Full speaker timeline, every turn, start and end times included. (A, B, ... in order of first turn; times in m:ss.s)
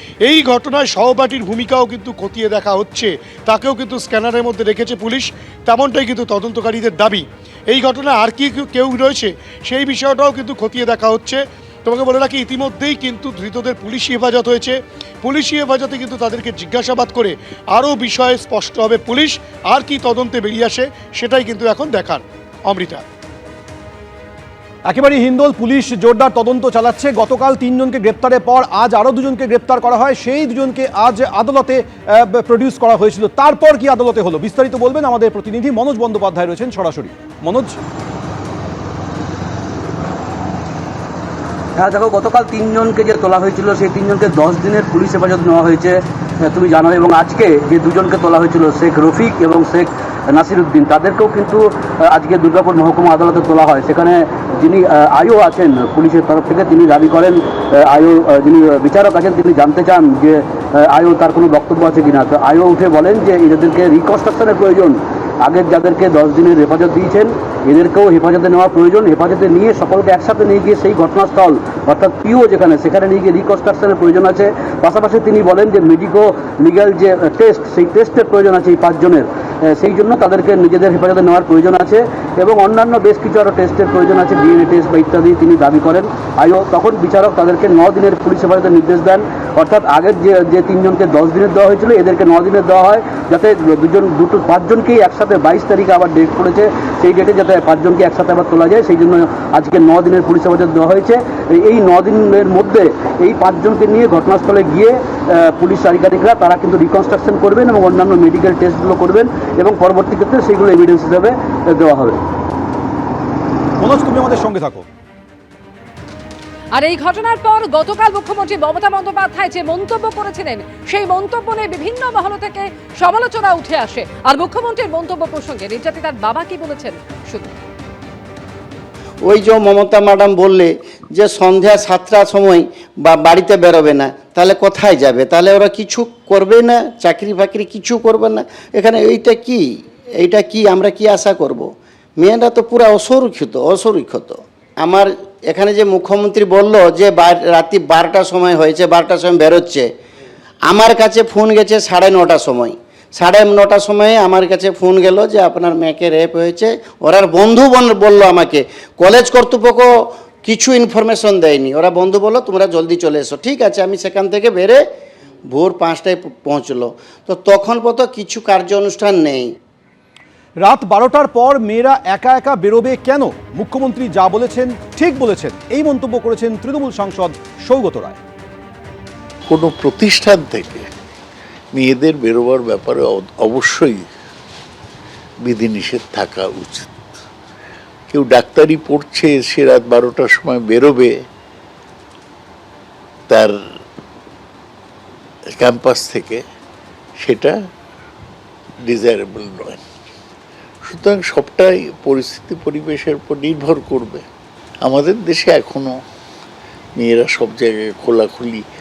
0:00.2-0:23.0 A
0:24.9-0:37.8 B
0:41.8-1:52.2 C
1:53.8-1:54.8 B
1:56.7-2:07.5 D
2:09.2-2:19.6 E
2:20.2-2:29.9 E
2:30.7-2:44.8 E
2:45.5-2:49.5 E
2:50.6-2:58.2 B
2:59.5-3:00.9 F
3:01.7-3:04.1 F
3:05.4-3:06.9 F
3:08.1-3:11.2 F
3:13.3-3:13.5 F
3:15.6-3:16.4 F
3:17.2-3:17.6 F
3:18.8-3:19.8 F
3:20.8-3:24.2 F
3:24.8-3:25.9 F
3:27.0-3:28.6 F